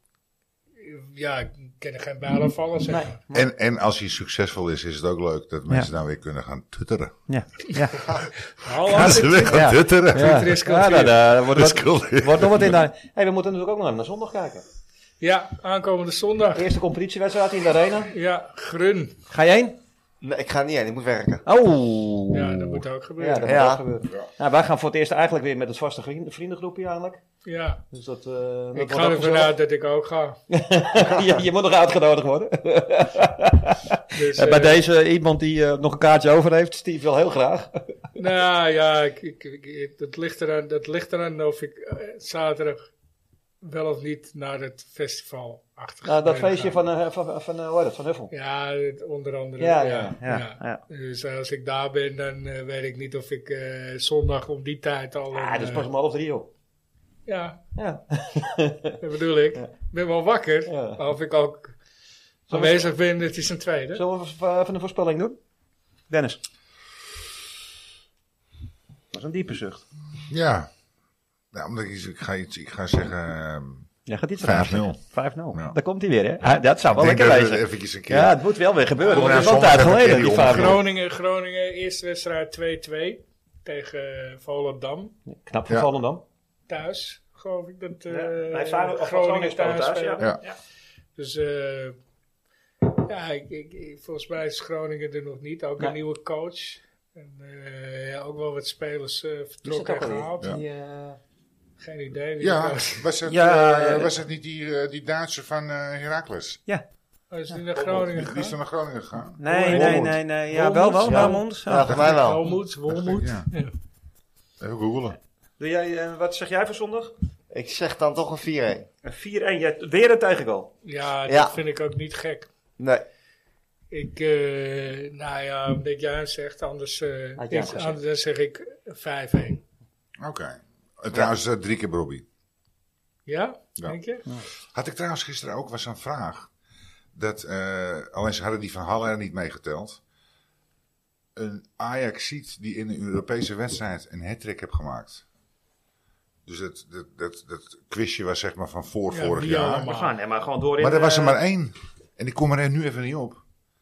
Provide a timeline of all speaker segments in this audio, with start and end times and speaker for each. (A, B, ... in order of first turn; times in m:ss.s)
0:00.8-0:03.2 A
0:02.9-0:03.5 B
0:03.3-0:07.2 C
0:07.3-0:08.1 B
0:08.6-0:11.2 A
0:08.8-0:10.6 C
0:09.5-0:14.6 B
0:11.5-0:12.8 C
0:15.2-0:16.7 A
0:16.6-0:18.1 B
0:18.1-0:19.2 A
0:19.3-0:19.8 B
0:20.2-0:21.4 D
0:21.4-0:27.2 B
0:22.3-0:23.6 A
0:23.4-0:23.8 D
0:27.4-0:27.8 A
0:27.9-0:29.5 B
0:28.8-0:30.4 A
0:30.5-0:37.9 B
0:34.1-0:34.8 A
0:38.2-0:42.8 A
0:43.6-0:46.8 A
0:46.0-0:48.3 B
0:48.3-0:55.9 A
0:49.6-0:50.8 B
0:55.3-0:56.5 B
0:57.3-0:57.6 A
0:57.8-0:59.0 B
0:59.0-1:01.8 A
1:00.7-1:01.0 B
1:02.5-1:04.0 A
1:02.5-1:02.9 B
1:03.9-1:05.4 B
1:06.1-1:06.4 B
1:09.1-1:09.8 B
1:10.3-1:10.7 C
1:11.5-1:13.9 C
1:14.0-1:20.8 B
1:14.4-1:15.0 C
1:17.0-1:18.4 C
1:19.0-1:25.1 A
1:19.0-1:20.8 C
1:25.3-1:26.2 B
1:26.7-1:30.4 A
1:28.1-1:30.5 B
1:31.2-1:32.0 A
1:32.8-1:40.6 A
1:39.6-1:41.2 B
1:41.8-1:43.1 A
1:42.4-1:46.6 C
1:43.2-1:44.2 B
1:47.3-1:48.5 A
1:47.6-1:48.1 B
1:47.9-1:50.1 C
1:49.4-1:52.0 B
1:49.4-1:53.7 A
1:51.0-1:52.4 D
1:51.9-1:53.5 C
1:54.6-1:55.2 C
1:55.6-1:57.1 B
1:57.5-1:58.9 D
1:59.0-2:00.7 B
2:00.8-2:02.5 A
2:01.3-2:01.6 D
2:02.8-2:03.0 D
2:03.9-2:09.6 A
2:07.4-2:08.0 B
2:10.2-2:12.2 C
2:13.3-2:14.2 A
2:14.7-2:16.5 C
2:17.1-2:20.0 C
2:21.4-2:25.2 C
2:26.4-2:29.9 C
2:29.1-2:30.1 A
2:29.8-2:31.4 B
2:30.8-2:33.4 C